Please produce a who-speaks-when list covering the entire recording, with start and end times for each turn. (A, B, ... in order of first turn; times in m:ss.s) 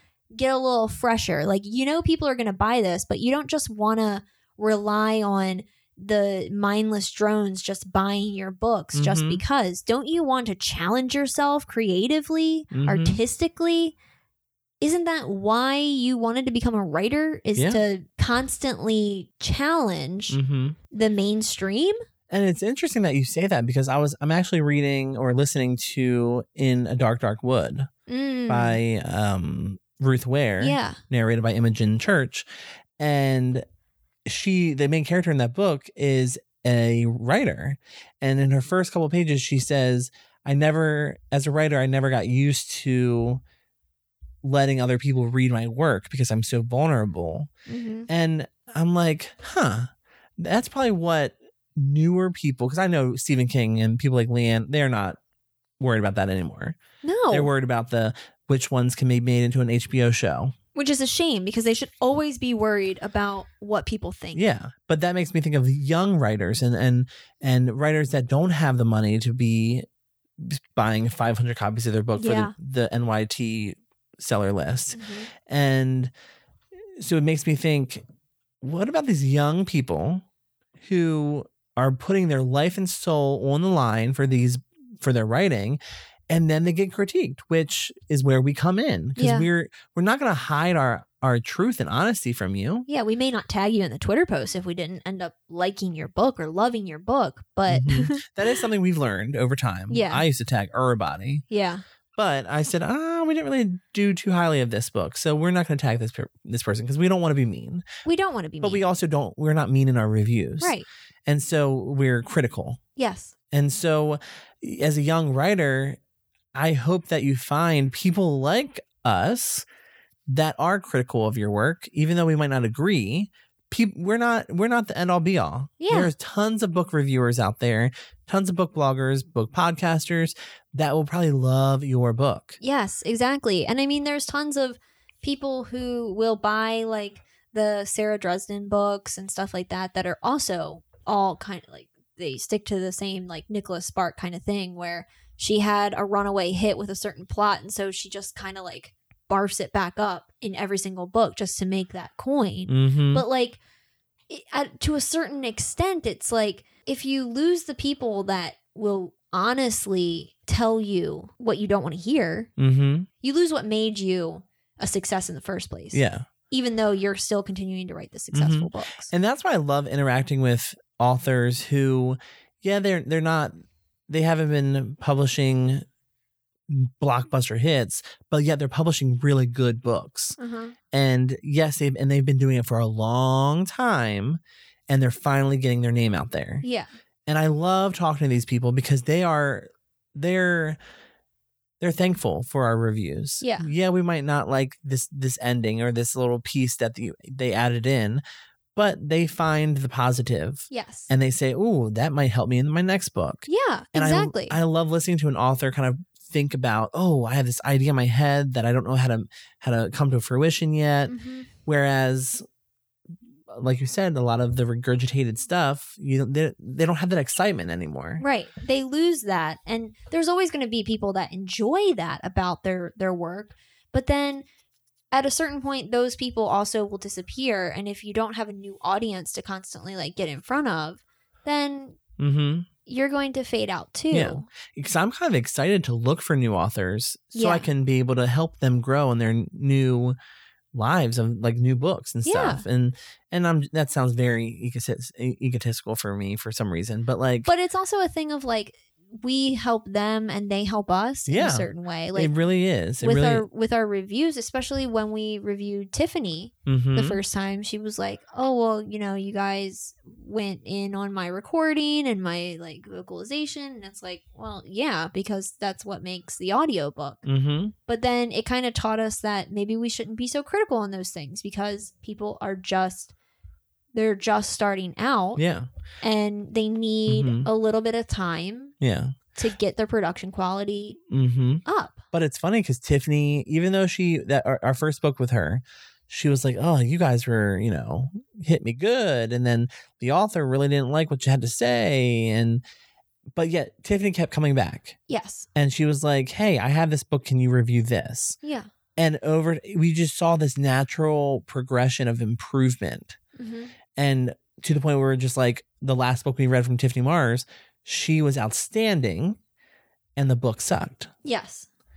0:00.3-0:13.9 A
0:08.9-0:09.4 B
0:12.7-0:13.2 B
0:14.8-0:20.4 A
0:17.6-0:17.8 B
0:20.3-0:20.8 B
0:20.9-0:22.0 A
0:22.3-0:27.9 B
0:28.1-0:28.8 A
0:28.5-0:32.4 B
0:30.6-0:31.0 A
0:33.0-0:33.6 B
0:34.2-0:43.4 B
0:44.4-0:47.5 B
0:47.7-0:48.1 A
0:48.1-0:55.2 B
0:55.8-0:56.8 B
0:57.0-0:57.5 A
0:57.3-1:00.5 B
1:00.7-1:04.4 A
1:04.3-1:09.8 B
1:10.4-1:16.1 B
1:12.2-1:12.5 A
1:14.9-1:15.3 A
1:17.0-1:18.0 B
1:18.6-1:20.2 B
1:20.8-1:32.9 B
1:29.2-1:29.5 A
1:32.9-1:38.6 A
1:37.7-1:41.4 B
1:39.9-1:40.2 A
1:41.5-1:41.8 A
1:42.2-1:47.8 B
1:48.0-1:48.8 A
1:48.6-1:50.8 B
1:50.6-1:50.9 A
1:51.3-1:52.8 B
1:53.0-1:53.3 A
1:53.5-1:56.0 B
1:56.5-1:59.6 B
2:00.3-2:12.6 B
2:05.8-2:06.1 A
2:12.6-2:33.6 A
2:32.7-2:33.2 B
2:34.3-2:42.5 A
2:42.6-2:43.1 B
2:43.2-2:49.1 A
2:45.9-2:46.2 B
2:48.3-2:53.5 B
2:54.1-2:55.8 B
2:56.7-3:00.4 B
3:00.4-3:00.8 A
3:00.9-3:06.6 B
3:06.6-3:06.9 A
3:07.3-3:10.8 B
3:11.8-3:18.2 B
3:13.4-3:13.7 A
3:18.7-3:31.1 B
3:20.7-3:21.1 A
3:23.5-3:24.6 A
3:31.1-3:31.5 A
3:31.6-3:32.4 B
3:33.5-3:38.2 B
3:38.2-3:44.4 A
3:45.1-3:52.0 A
3:52.2-3:52.7 B
3:52.8-3:54.5 A
3:54.1-4:00.2 B
3:57.3-3:57.7 A
4:00.7-4:07.5 B
4:02.2-4:02.6 A
4:07.4-4:12.3 A
4:11.3-4:13.4 B
4:13.0-4:27.2 A
4:16.6-4:17.2 B
4:27.2-4:27.7 B
4:27.8-4:33.1 A
4:33.9-4:35.4 A
4:35.4-4:35.7 B
4:36.0-4:38.7 A
4:37.1-4:37.5 B
4:38.8-4:39.1 B
4:39.3-4:41.0 A
4:41.1-4:52.6 B
4:41.6-4:42.0 A
4:53.3-4:55.0 B
4:55.1-4:55.5 A
4:55.5-4:58.4 B
4:58.4-4:58.7 A
4:59.0-5:03.2 B
5:03.4-5:03.7 A
5:04.0-5:09.4 B
5:10.2-5:11.1 B
5:11.2-5:11.7 A